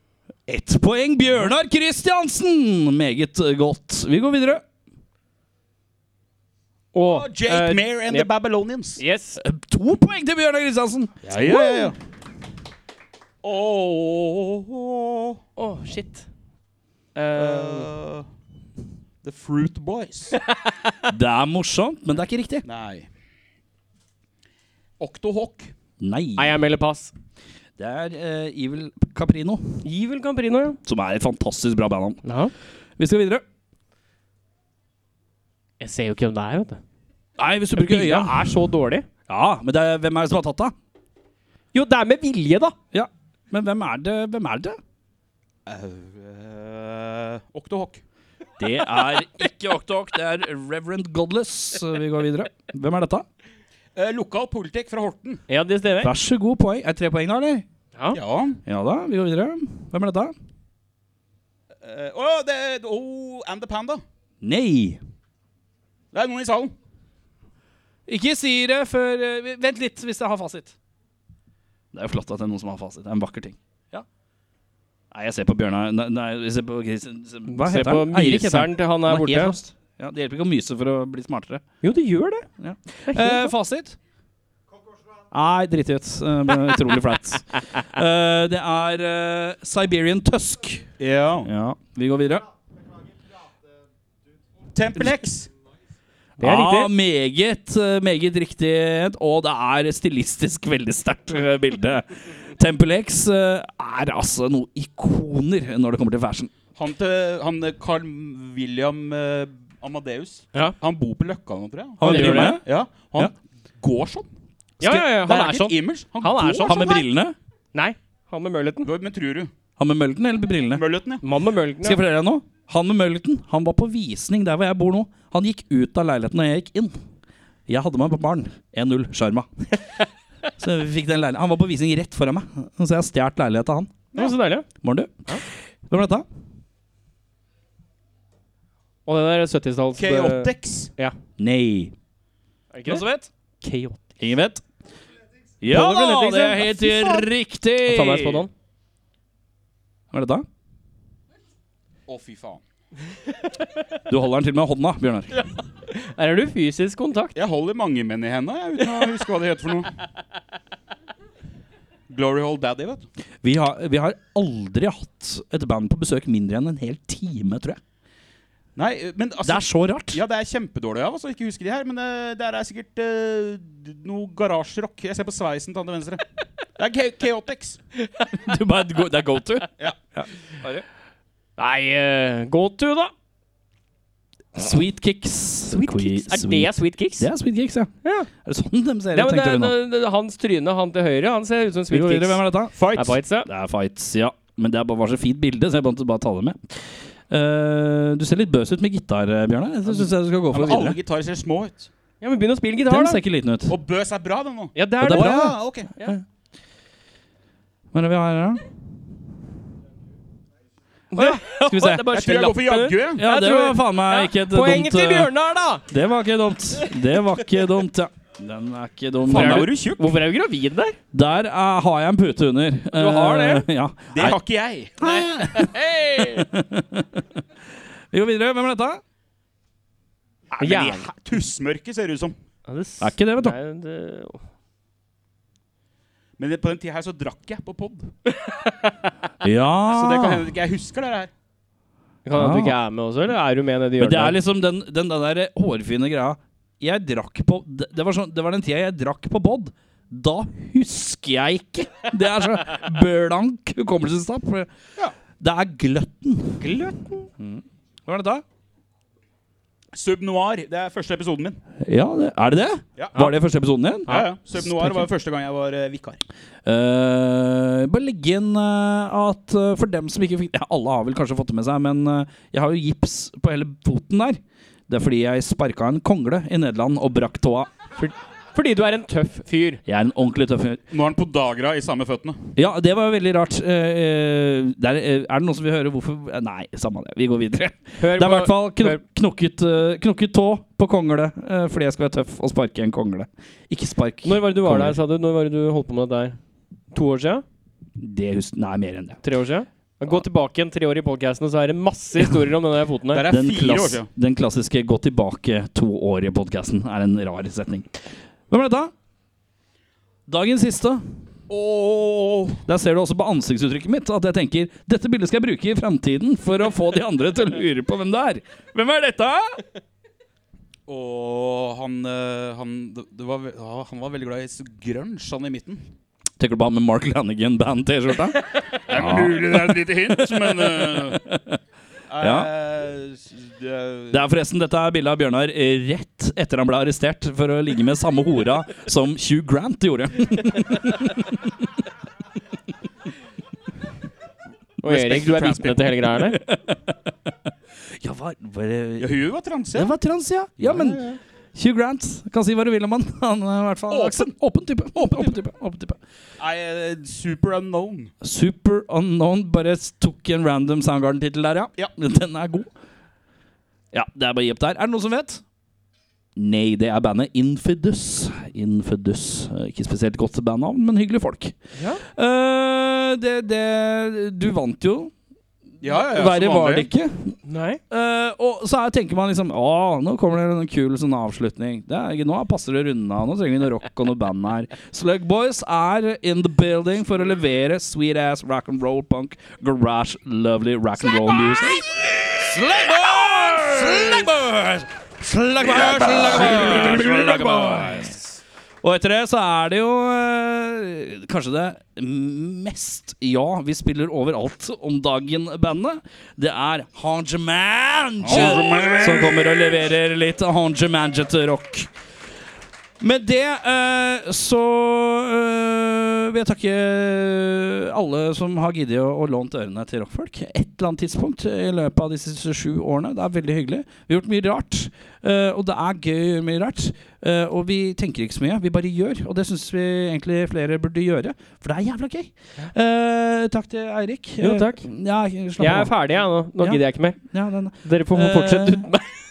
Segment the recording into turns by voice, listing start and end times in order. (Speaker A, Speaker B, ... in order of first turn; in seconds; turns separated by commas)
Speaker A: 0.5-4.6, Speaker B: 6.9-8.3, Speaker C: 7.0-9.0, Speaker B: 9.0-9.4, Speaker A: 9.4-11.2, Speaker C: 11.2-11.9, Speaker B: 11.4-11.9, Speaker C: 13.4-15.4, Speaker B: 15.6-16.3, Speaker B: 17.1-17.9, Speaker C: 17.3-18.3, Speaker C: 19.2-20.4, Speaker A: 21.1-22.6, Speaker C: 22.6-23.1, Speaker C: 25.0-25.7, Speaker A: 26.0-26.6, Speaker B: 26.4-27.1, Speaker A: 27.8-29.8, Speaker B: 29.8-30.8, Speaker A: 30.8-32.2, Speaker B: 32.2-32.5, Speaker A: 33.0-33.4, Speaker B: 35.8-36.8, Speaker A: 37.4-38.5, Speaker B: 37.7-39.0, Speaker A: 39.3-40.7, Speaker B: 41.7-42.7, Speaker A: 42.9-44.8, Speaker C: 45.6-48.0, Speaker A: 48.6-53.2, Speaker C: 53.9-55.4, Speaker B: 55.5-56.1, Speaker A: 56.0-57.6, Speaker C: 58.1-58.6, Speaker A: 58.6-60.3, Speaker C: 61.8-64.0, Speaker A: 64.4-65.0, Speaker C: 66.1-66.7, Speaker A: 68.1-70.7, Speaker A: 71.9-74.0, Speaker A: 75.1-81.6, Speaker B: 77.5-79.5, Speaker B: 81.8-82.5, Speaker A: 82.6-84.0, Speaker B: 83.1-83.5, Speaker A: 85.3-90.9, Speaker C: 91.0-91.5, Speaker A: 91.4-92.5, Speaker C: 94.7-95.5, Speaker A: 96.4-106.5, Speaker B: 96.4-96.9, Speaker C: 106.8-114.3, Speaker A: 112.0-112.6, Speaker B: 112.0-112.6, Speaker B: 114.8-117.0, Speaker C: 114.8-116.9, Speaker A: 116.7-117.3, Speaker B: 117.7-118.9, Speaker C: 118.8-119.5, Speaker A: 119.8-120.8, Speaker C: 120.7-121.2, Speaker B: 121.2-122.0, Speaker A: 121.8-126.9, Speaker A: 127.7-129.7, Speaker A: 130.6-133.9, Speaker B: 134.1-134.7, Speaker A: 134.8-135.2, Speaker A: 135.9-136.2, Speaker B: 139.1-141.2, Speaker C: 139.9-140.9, Speaker A: 141.4-141.9, Speaker B: 142.7-143.0, Speaker A: 142.8-143.3, Speaker B: 143.6-144.2, Speaker A: 144.2-144.6, Speaker A: 145.6-148.4, Speaker B: 145.7-147.3, Speaker B: 147.8-148.5, Speaker A: 150.1-150.4, Speaker C: 152.1-152.6, Speaker A: 154.1-155.3, Speaker B: 155.3-157.3, Speaker C: 157.3-159.9, Speaker C: 162.1-163.1, Speaker A: 163.4-167.8, Speaker C: 168.8-176.2, Speaker A: 169.4-170.2, Speaker C: 176.8-177.8, Speaker A: 178.3-180.8, Speaker B: 181.6-183.1, Speaker A: 184.6-187.9, Speaker B: 185.7-187.3, Speaker A: 188.4-189.7, Speaker B: 189.1-193.5, Speaker A: 191.9-192.7, Speaker C: 192.8-193.1, Speaker A: 193.4-201.0, Speaker C: 199.9-201.9, Speaker B: 202.2-203.2, Speaker A: 202.9-203.7, Speaker C: 203.7-205.9, Speaker B: 204.7-206.2, Speaker A: 205.0-206.2, Speaker A: 207.9-208.6, Speaker A: 211.1-212.3, Speaker B: 211.1-215.8, Speaker C: 212.1-213.2, Speaker A: 213.2-215.3, Speaker A: 215.9-219.7, Speaker C: 219.3-220.2, Speaker B: 219.3-220.9, Speaker A: 221.1-224.4, Speaker B: 222.9-223.7, Speaker C: 224.1-225.1, Speaker A: 225.0-227.2, Speaker B: 225.6-226.3, Speaker A: 228.1-229.0, Speaker C: 230.5-232.3, Speaker B: 230.6-231.0, Speaker B: 232.7-234.4, Speaker A: 233.0-233.6, Speaker C: 236.4-238.1, Speaker A: 239.4-240.4, Speaker C: 239.9-241.3, Speaker B: 242.2-244.4, Speaker A: 242.3-242.7, Speaker A: 244.0-254.7, Speaker A: 255.4-256.6, Speaker B: 256.6-257.2, Speaker A: 257.4-258.4, Speaker C: 259.9-261.6, Speaker A: 261.9-265.0, Speaker C: 264.1-266.2, Speaker A: 266.6-277.7, Speaker B: 278.0-279.8, Speaker A: 279.9-280.8, Speaker C: 280.9-282.4, Speaker A: 282.6-295.0, Speaker B: 288.0-289.0, Speaker B: 294.2-296.4, Speaker B: 296.9-297.4, Speaker A: 298.0-299.2, Speaker B: 299.2-303.2, Speaker C: 303.1-304.1, Speaker A: 303.3-307.9, Speaker A: 308.5-308.9, Speaker A: 310.3-311.0, Speaker C: 311.5-312.6, Speaker A: 312.7-319.6, Speaker C: 320.9-325.8, Speaker A: 326.4-331.6, Speaker C: 328.9-331.2, Speaker C: 332.1-334.2, Speaker A: 332.2-332.5, Speaker A: 334.1-341.3, Speaker B: 344.8-346.4, Speaker C: 344.8-346.1, Speaker A: 346.3-346.8, Speaker A: 348.0-349.1, Speaker C: 349.0-350.0, Speaker A: 349.7-356.0, Speaker C: 350.6-351.2, Speaker C: 353.9-354.3, Speaker C: 355.0-355.3, Speaker C: 356.4-358.1, Speaker A: 358.2-362.7, Speaker A: 363.9-365.4, Speaker A: 366.4-371.5, Speaker A: 372.1-375.1, Speaker C: 375.8-376.9, Speaker A: 375.9-377.4, Speaker B: 377.4-377.8, Speaker A: 377.9-398.1, Speaker A: 398.8-411.9, Speaker C: 408.2-409.4, Speaker A: 413.0-435.9, Speaker B: 434.4-434.9, Speaker B: 435.6-437.2, Speaker A: 436.6-438.9, Speaker B: 437.8-439.1